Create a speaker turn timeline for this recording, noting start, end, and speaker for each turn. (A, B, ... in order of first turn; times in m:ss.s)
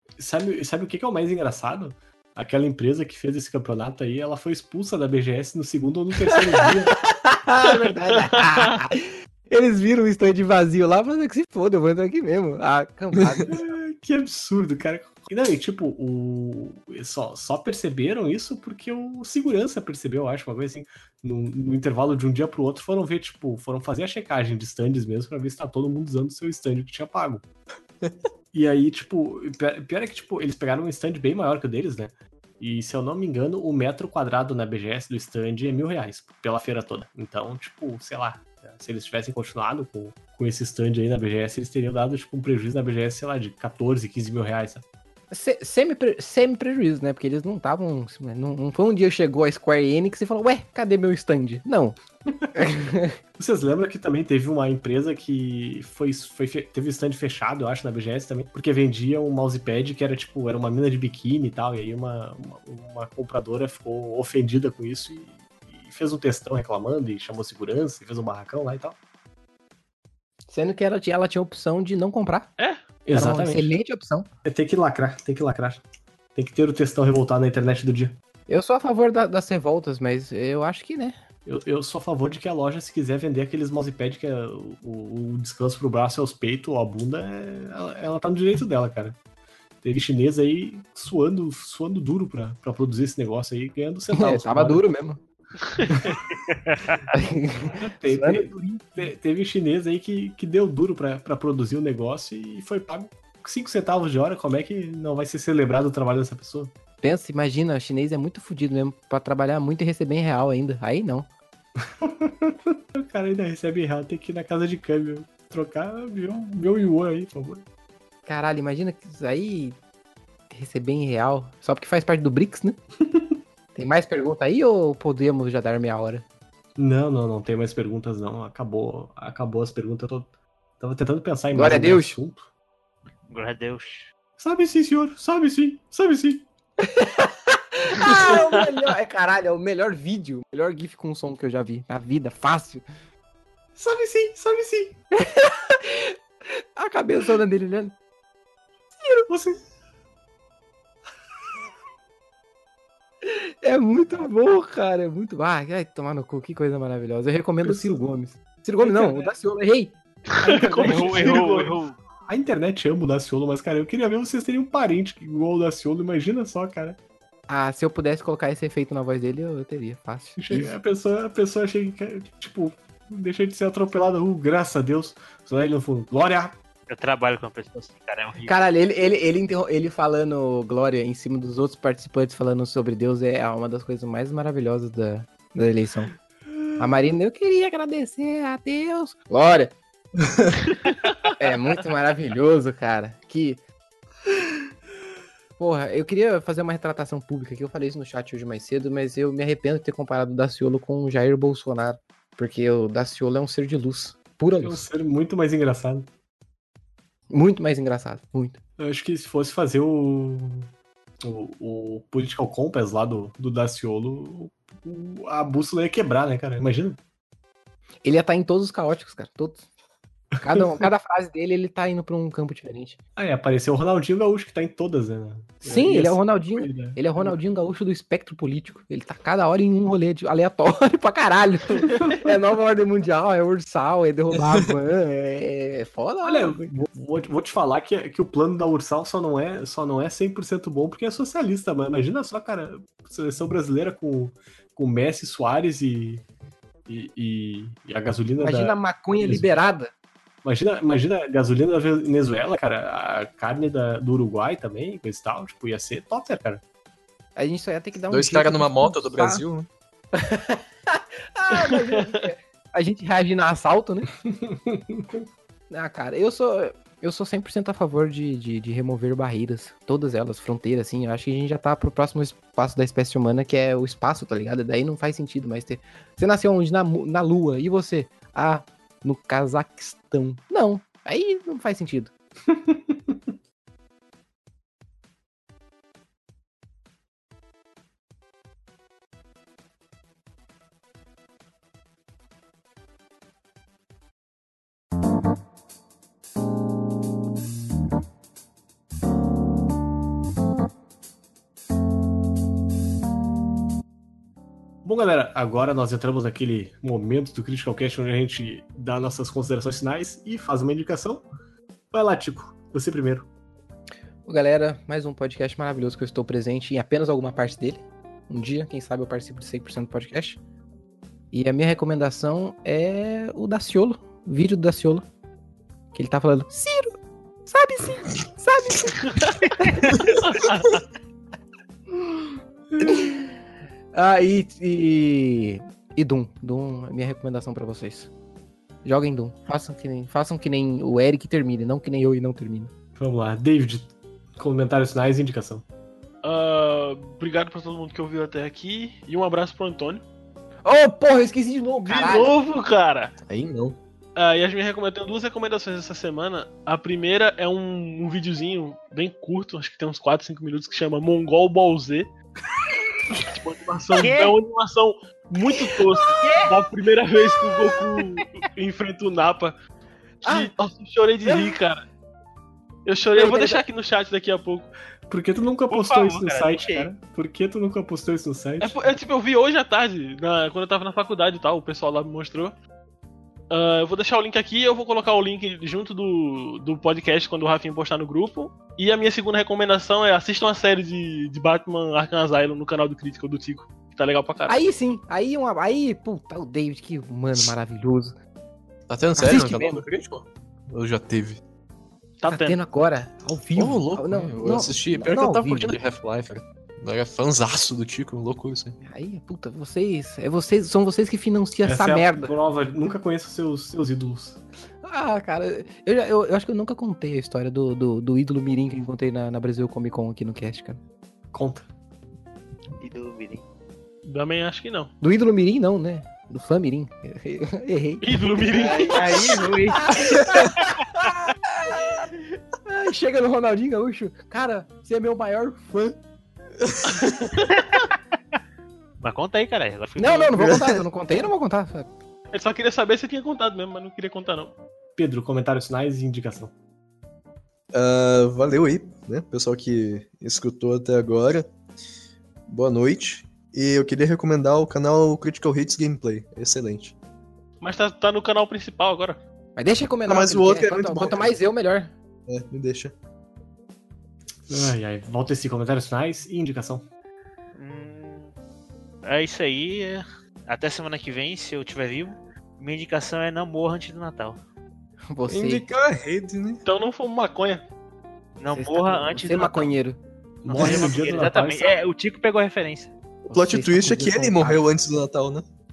0:00.2-0:06.9 A
0:06.9-0:13.7 B
0:08.1-0:08.8 C
0:13.5-0:27.4 A
0:28.5-0:44.8 A
0:45.3-0:52.0 B
0:52.5-0:53.2 B
0:53.4-1:09.0 A
1:10.5-1:12.5 B
1:13.0-1:13.7 A
1:13.1-1:14.3 B
1:14.4-1:15.8 A
1:16.3-1:18.2 A
1:18.5-1:21.2 B
1:21.4-1:29.2 A
1:29.8-1:34.8 A
1:34.1-1:35.2 B
1:35.6-1:35.9 C
1:35.9-1:36.2 A
1:37.1-1:39.0 B
1:37.8-1:46.7 A
1:47.0-1:51.3 B
1:52.0-1:57.6 A
1:58.2-1:59.8 B
2:00.5-2:02.8 B
2:03.7-2:06.2 B
2:06.8-2:12.5 A
2:11.5-2:12.2 B
2:13.3-2:14.1 D
2:14.4-2:16.5 A
2:16.8-2:22.8 B
2:23.8-2:25.0 A
2:25.1-2:27.9 B
2:29.3-2:29.6 A
2:33.2-2:39.9 B
2:37.6-2:38.0 A
2:40.3-2:41.7 C
2:40.4-2:47.0 A
2:40.9-2:42.0 D
2:47.5-2:50.7 B
2:50.4-2:56.6 A
2:56.9-2:58.6 D
2:58.4-3:06.1 B
3:06.8-3:09.7 B
3:11.4-3:13.6 B
3:15.6-3:24.8 B
3:24.6-3:26.1 A
3:27.3-3:28.6 B
3:28.8-3:30.7 A
3:31.2-3:37.0 A
3:38.0-3:39.6 B
3:40.4-3:43.0 B
3:43.2-3:47.3 A
3:45.6-3:56.7 B
3:56.2-4:06.2 A
4:06.9-4:09.5 A
4:08.4-4:09.9 B
4:10.4-4:16.6 A
4:17.4-4:19.4 B
4:18.1-4:19.7 E
4:20.1-4:24.1 B
4:21.5-4:22.2 C
4:24.2-4:25.2 A
4:25.7-4:42.1 B
4:42.5-4:43.1 A
5:04.8-5:11.2 A
5:11.9-5:13.3 A
5:14.2-5:20.4 B
5:21.3-5:25.0 B
5:25.9-5:26.9 B
5:27.5-5:30.2 B
5:30.3-5:30.7 C
5:31.9-5:32.3 B
5:32.8-5:33.3 B
5:33.9-5:38.1 B
5:38.8-5:42.7 B
5:43.0-5:45.6 A
5:46.2-5:50.0 C
5:50.6-5:52.3 B
5:51.8-5:53.1 C
5:53.2-5:53.8 E
5:54.2-6:02.1 C
6:03.3-6:09.5 C
6:04.0-6:04.3 D
6:06.2-6:06.5 D
6:10.2-6:11.8 C
6:10.2-6:10.5 B
6:11.2-6:11.6 B
6:12.8-6:14.7 C
6:13.1-6:13.6 B
6:15.1-6:18.8 A
6:15.7-6:16.9 D
6:18.6-6:22.5 C
6:23.5-6:34.6 C
6:34.5-6:38.2 B
6:38.9-6:41.4 E
6:39.2-6:39.8 B
6:42.2-6:42.6 C
6:42.3-6:45.8 B
6:43.5-6:48.8 E
6:48.8-6:52.3 B
6:51.6-6:54.4 A
6:54.8-7:00.8 B
7:01.3-7:01.6 A
7:02.8-7:03.4 D
7:04.0-7:04.9 C
7:05.0-7:16.0 B
7:08.0-7:09.2 C
7:08.6-7:09.9 D
7:10.6-7:11.1 D
7:16.6-7:17.3 E
7:19.0-7:20.6 D
7:20.0-7:21.9 B
7:20.4-7:20.8 E
7:22.3-7:24.5 C
7:25.0-7:26.5 A
7:27.7-7:31.5 E
7:32.5-7:36.9 E
7:37.6-7:39.2 C
7:39.6-7:41.9 B
7:40.0-7:41.4 E
7:42.3-7:42.9 E
7:44.5-7:46.8 A
7:47.5-7:48.3 D
7:49.0-7:54.4 D
7:55.1-7:55.6 B
7:55.3-7:56.6 E
7:56.6-7:57.6 C
7:58.4-7:59.7 D
7:58.5-8:00.0 B
8:00.4-8:01.7 A
8:00.5-8:01.3 C
8:00.5-8:02.9 D
8:03.3-8:04.6 B
8:03.3-8:05.4 E